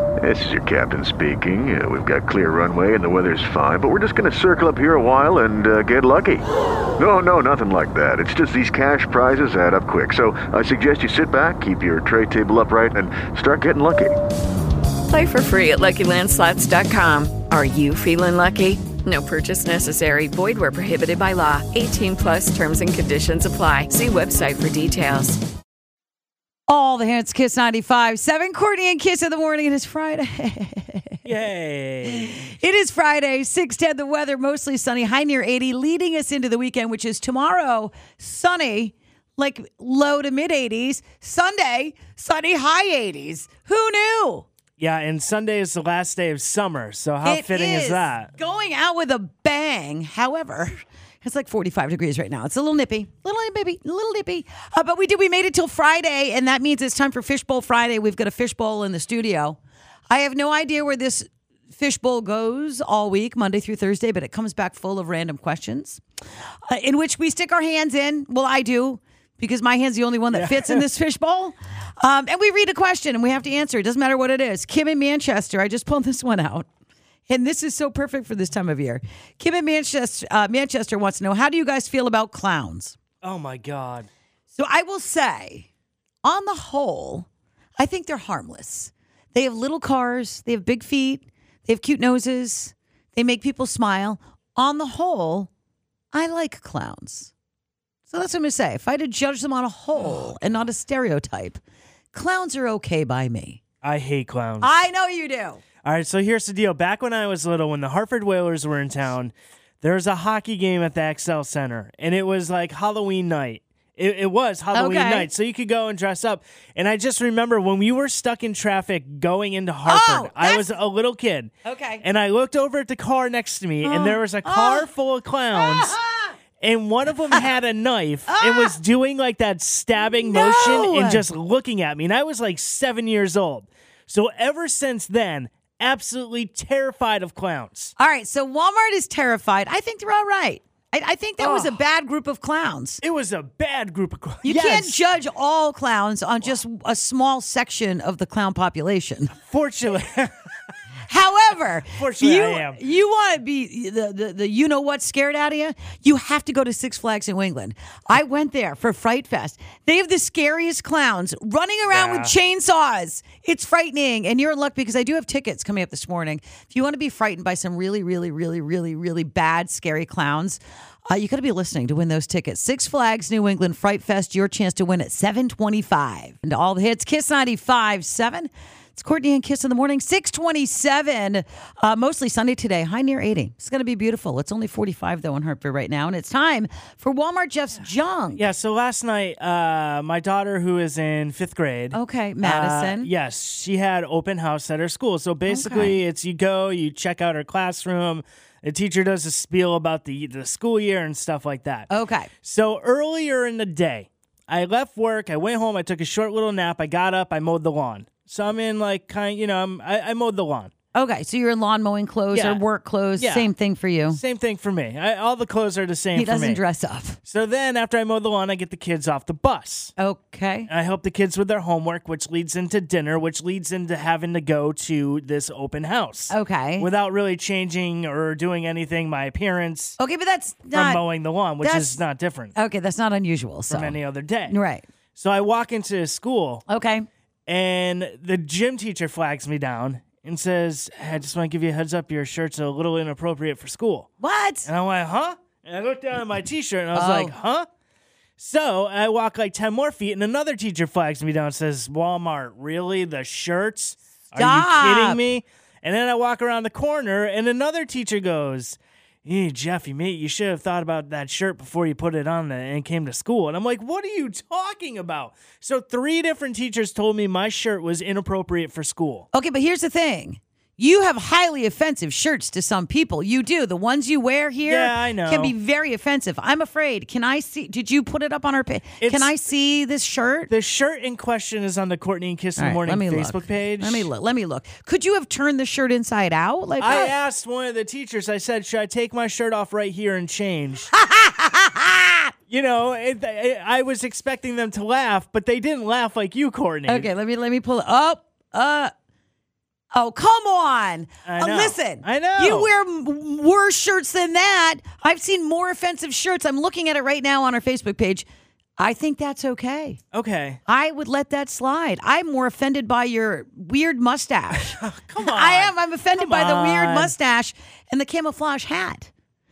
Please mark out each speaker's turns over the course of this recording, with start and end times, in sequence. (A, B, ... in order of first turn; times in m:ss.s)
0:00.2-0:06.4 A
0:07.0-0:14.2 A
0:15.1-0:25.4 B
0:26.7-0:31.2 C
0:31.2-0:32.4 D
0:32.1-0:44.5 C
0:44.8-0:48.3 D
0:47.2-0:59.6 C
1:00.1-1:06.0 C
1:06.7-1:16.7 C
1:10.3-1:10.8 D
1:17.3-1:23.0 C
1:23.2-1:24.1 D
1:24.5-1:25.7 C
1:26.2-1:27.3 C
1:27.8-1:35.5 C
1:36.1-1:37.3 C
1:38.1-1:41.6 C
1:40.0-1:40.3 D
1:42.1-1:43.6 C
1:43.8-1:44.7 D
1:44.6-1:45.6 C
1:45.8-2:06.0 D
1:54.7-1:55.3 C
1:59.8-2:00.7 C
2:01.6-2:02.0 C
2:03.8-2:04.9 C
2:05.5-2:06.4 C
2:06.6-2:17.9 D
2:08.3-2:08.7 C
2:10.0-2:11.2 C
2:18.0-2:23.0 C
2:21.4-2:21.8 D
2:23.0-2:25.0 D
2:24.4-2:29.3 C
2:29.5-2:30.3 D
2:31.1-3:08.4 C
2:32.0-2:32.8 D
2:41.9-2:42.3 D
3:08.4-3:21.9 D
3:11.9-3:13.1 C
3:15.5-3:16.0 C
3:21.9-3:22.3 C
3:22.4-3:30.7 D
3:30.9-3:34.2 C
3:32.3-3:32.6 D
3:33.2-3:33.5 D
3:34.1-3:36.6 D
3:36.1-3:37.2 C
3:37.2-3:39.9 D
3:40.0-3:40.7 C
3:40.7-3:50.0 D
3:46.3-3:46.9 C
3:50.0-3:51.0 C
3:50.7-3:52.5 D
3:51.6-3:52.0 C
3:52.6-3:54.9 C
3:53.7-3:54.6 D
3:55.2-3:56.6 D
3:56.7-3:57.1 C
3:57.5-4:04.1 D
4:04.2-4:04.7 C
4:04.6-4:07.7 D
4:06.9-4:07.3 C
4:08.4-4:29.3 D
4:14.4-4:15.2 C
4:29.3-4:40.5 C
4:34.6-4:35.5 D
4:39.0-4:39.3 D
4:40.5-4:44.1 D
4:42.6-4:47.1 C
4:46.8-4:50.9 D
4:50.9-4:52.3 C
4:52.5-4:57.1 D
4:56.9-4:58.9 C
4:59.9-5:08.3 C
5:01.3-5:02.7 D
5:08.8-5:10.0 C
5:10.1-5:10.6 D
5:10.7-5:19.1 C
5:14.7-5:17.1 D